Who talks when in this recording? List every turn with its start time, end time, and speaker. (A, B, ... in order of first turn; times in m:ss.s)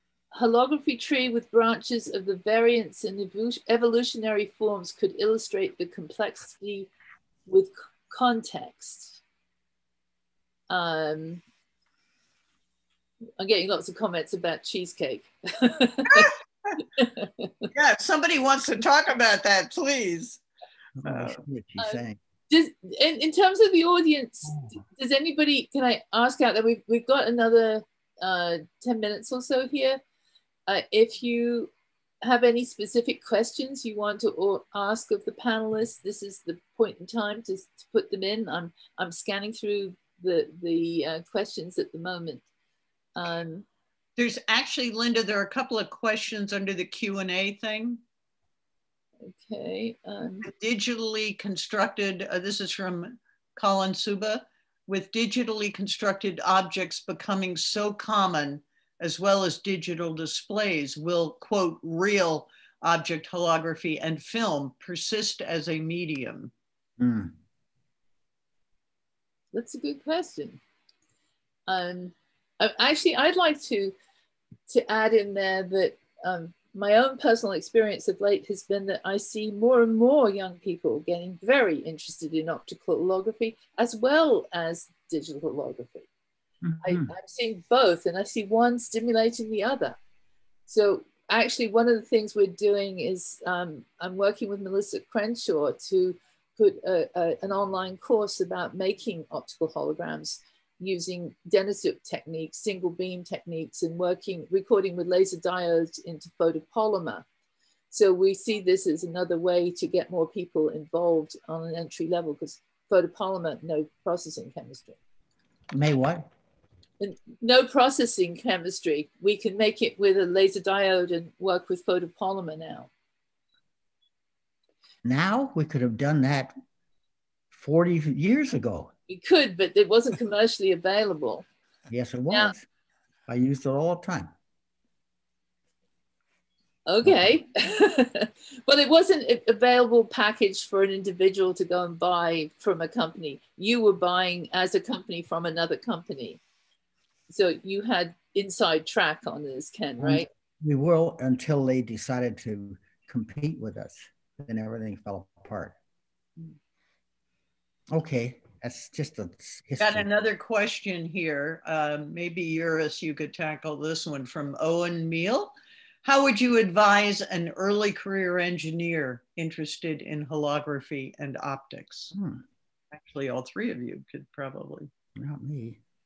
0:00.3-0:06.9 A
0:07.5-0:09.2 A
0:10.7-0:11.4 A
0:13.4-0:16.3 A
0:16.1-0:16.8 B
0:16.9-0:17.7 A
0:17.7-0:20.4 B
0:21.0-0:22.2 C
0:21.0-0:21.4 B
0:21.8-0:30.0 A
0:30.7-0:31.7 A
0:32.2-0:42.4 A
0:43.2-0:43.6 A
0:44.2-0:48.0 B
0:49.4-0:50.4 A
0:50.4-1:06.5 B
1:07.0-1:07.3 C
1:09.5-1:10.6 A
1:11.7-1:13.9 A
1:14.7-1:26.1 A
1:26.6-1:27.1 C
1:26.8-1:30.0 A
1:30.7-1:47.2 A
1:47.9-1:55.0 A
1:55.7-1:56.3 C
1:57.0-2:02.9 A
2:05.0-2:06.6 C
2:07.5-2:08.9 C
2:09.1-2:11.4 A
2:11.9-2:12.6 C
2:13.3-2:14.3 C
2:16.8-2:26.4 A
2:27.3-2:30.3 A
2:30.0-2:35.8 C
2:37.9-2:40.1 C
2:39.8-2:52.1 B
2:52.1-2:52.4 C
2:52.9-2:54.9 B
2:55.2-2:55.8 C